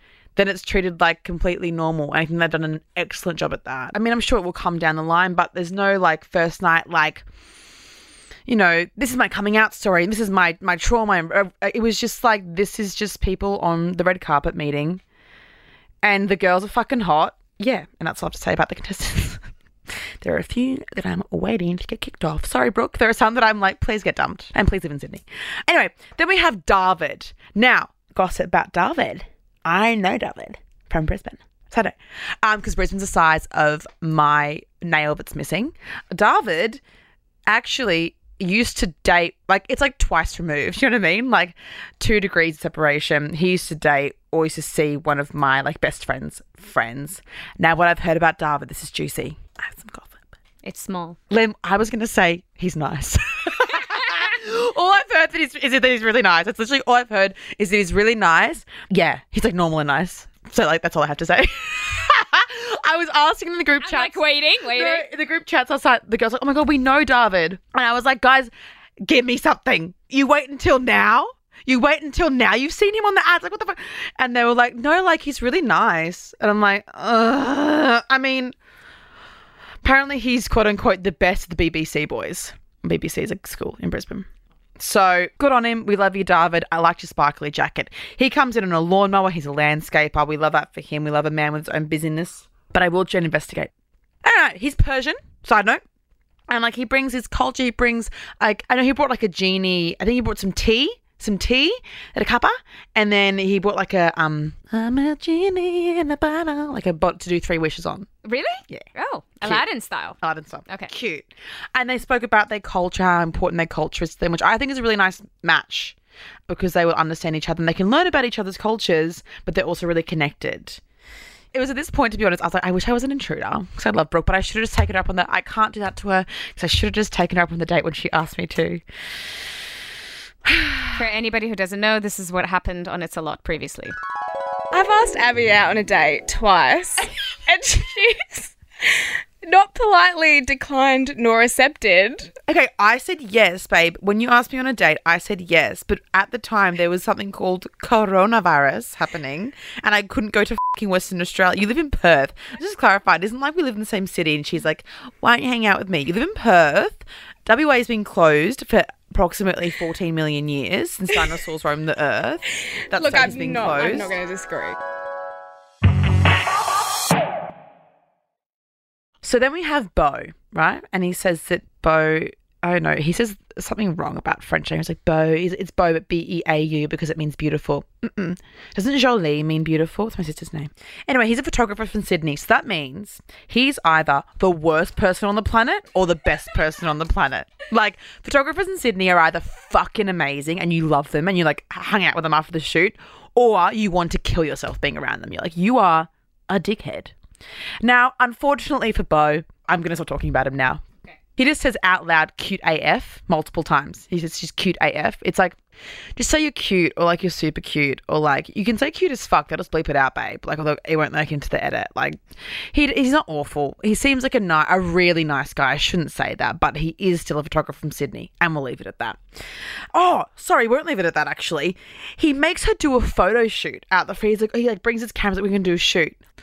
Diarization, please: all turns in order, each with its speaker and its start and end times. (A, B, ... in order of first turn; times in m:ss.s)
0:00.4-0:07.2 A
0:08.5-0:15.0 A
0:16.0-0:19.5 A
0:20.2-0:36.8 A
0:37.5-0:50.2 A
0:50.6-0:51.2 B
0:51.3-1:08.5 A
1:03.8-1:05.1 B
1:09.0-1:18.6 A
1:19.8-1:33.7 A
1:34.2-1:35.8 A
1:36.5-1:48.1 A
1:48.2-1:50.2 B
1:50.2-1:56.0 A
1:56.5-2:00.8 A
2:01.5-2:08.8 A
2:10.5-2:11.0 A
2:10.9-2:13.9 B
2:14.7-2:18.5 C
2:19.4-2:22.3 C
2:22.5-2:44.1 A
2:42.9-2:44.8 C
2:49.2-3:17.1 A
3:17.8-3:20.8 A
3:21.4-3:25.6 A
3:26.2-3:32.2 A
3:32.7-3:39.2 A
3:39.9-3:46.2 A